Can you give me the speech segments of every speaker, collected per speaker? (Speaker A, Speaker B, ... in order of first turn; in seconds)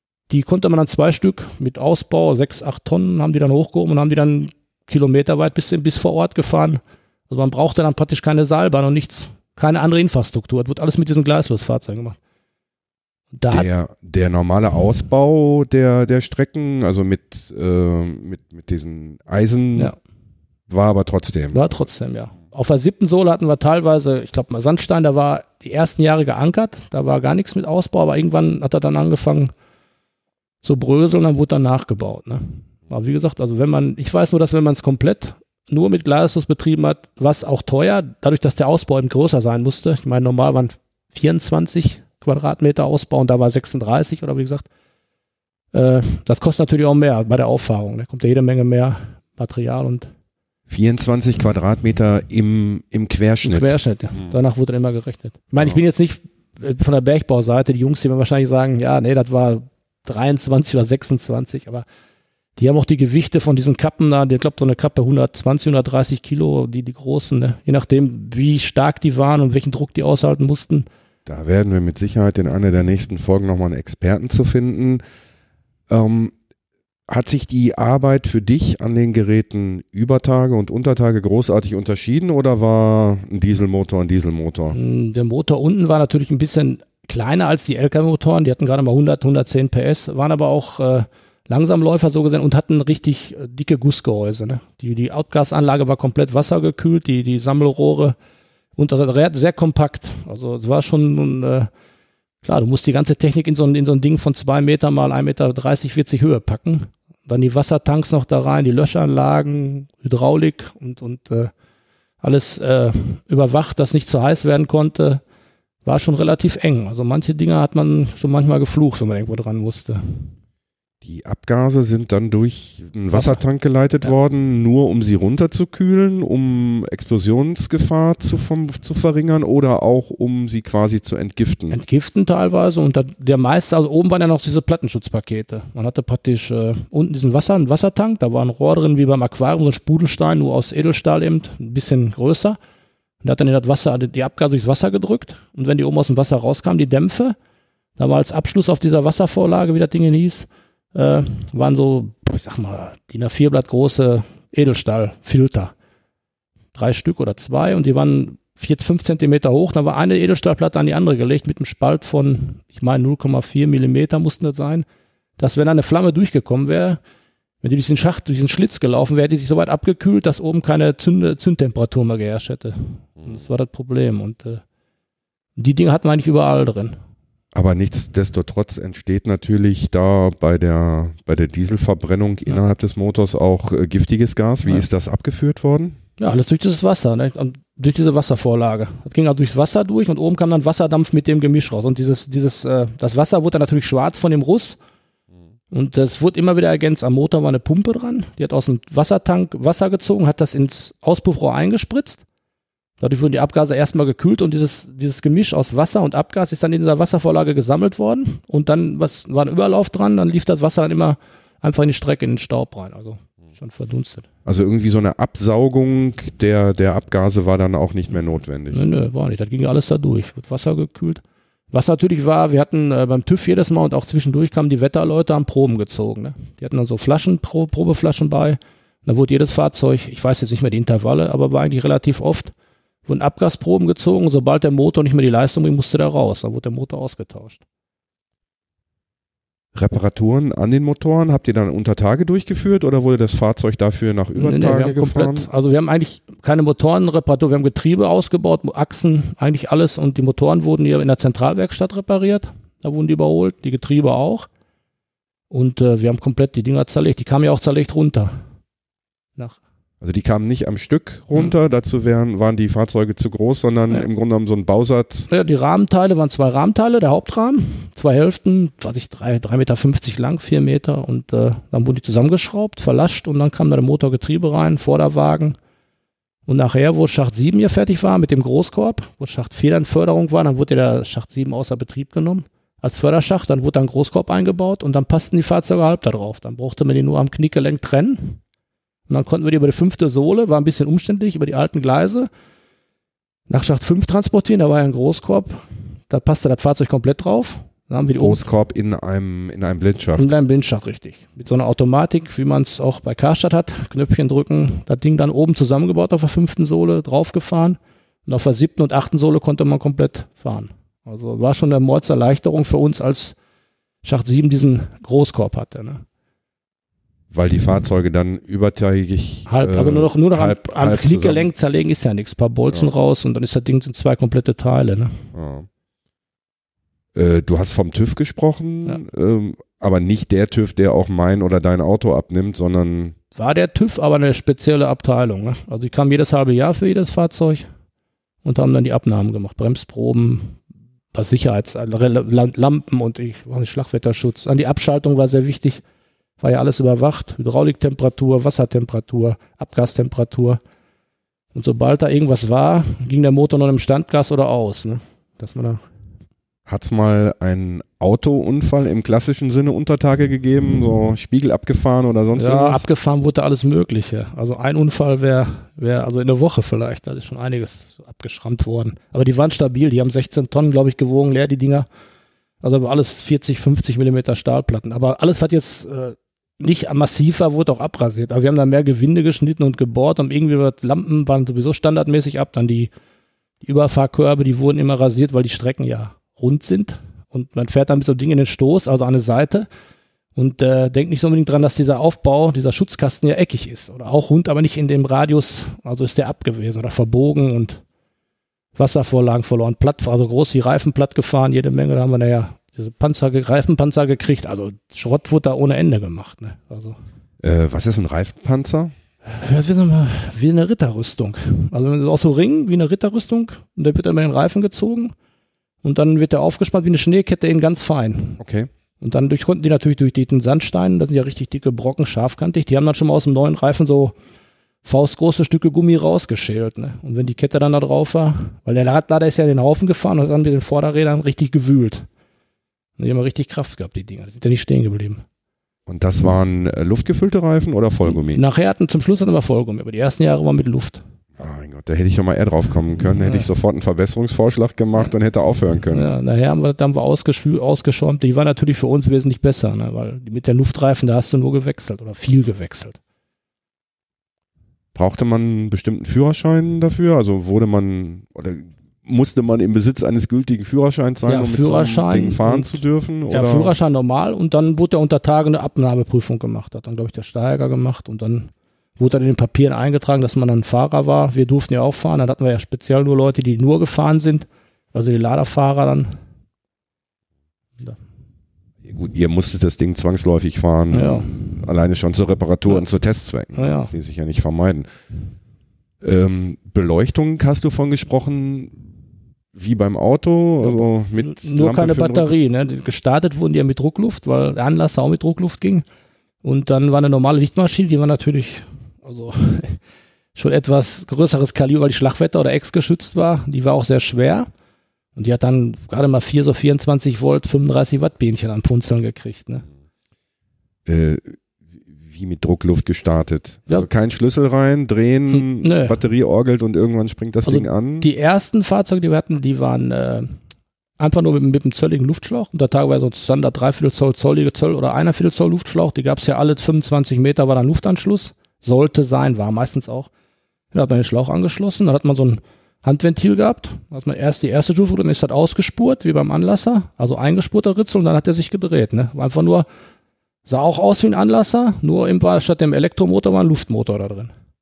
Speaker A: 0.3-12.2, 13.3-13.7, 21.5-29.5, 30.6-44.7, 45.7-50.1, 53.4-61.9, 62.6-70.9, 84.7-98.2, 98.8-101.7, 102.4-111.5, 112.2-115.2, 115.8-120.3, 123.1-123.4, 131.7-142.6, 143.2-147.3, 148.0-155.7, 156.7-164.8, 165.4-167.0, 167.6-174.6, 175.6-177.0, 186.2-194.8, 195.7-202.2, 203.0-214.3, 218.7-232.5, 233.1-237.6, 244.3-254.5, 255.5-258.4, 265.3-275.6, 276.5-288.4, 289.1-292.3, 293.5-298.4, 300.2-313.4, 314.0-316.0, 319.5-325.2, 333.3-337.7, 338.4-340.6, 341.1-345.8, 346.4-350.6, 351.5-355.9, 362.4-371.9, 372.6-382.9, 383.6-389.7, 390.4-397.8, 398.8-407.0, 409.2-415.1, 415.8-418.4, 419.0-424.1, 424.8-432.1, 433.0-435.2, 438.1-441.0, 443.2-443.4, 445.9-453.0, 461.2-462.7, 463.3-476.2, 480.9-481.6, 483.5-483.9, 490.6-495.8, 496.4-499.8, 500.3-504.5, 505.1-509.6, 515.3-516.0, 517.4-520.4, 521.0-530.1, 530.7-539.7, 540.5-544.3
Speaker B: 13.5-19.9, 20.7-21.8, 50.7-54.3, 71.2-75.0, 75.9-76.3, 77.1-84.8, 121.0-131.8, 177.5-186.0, 214.4-218.9, 239.7-245.5, 260.0-265.3, 298.2-300.3, 317.3-321.5, 325.3-325.7, 327.1-333.1, 356.7-362.8, 407.4-408.9, 418.4-418.7, 435.9-438.4, 441.4-446.1, 454.9-463.7, 478.8-484.9, 486.0-488.8, 489.5-492.3, 510.9-511.4, 512.0-518.1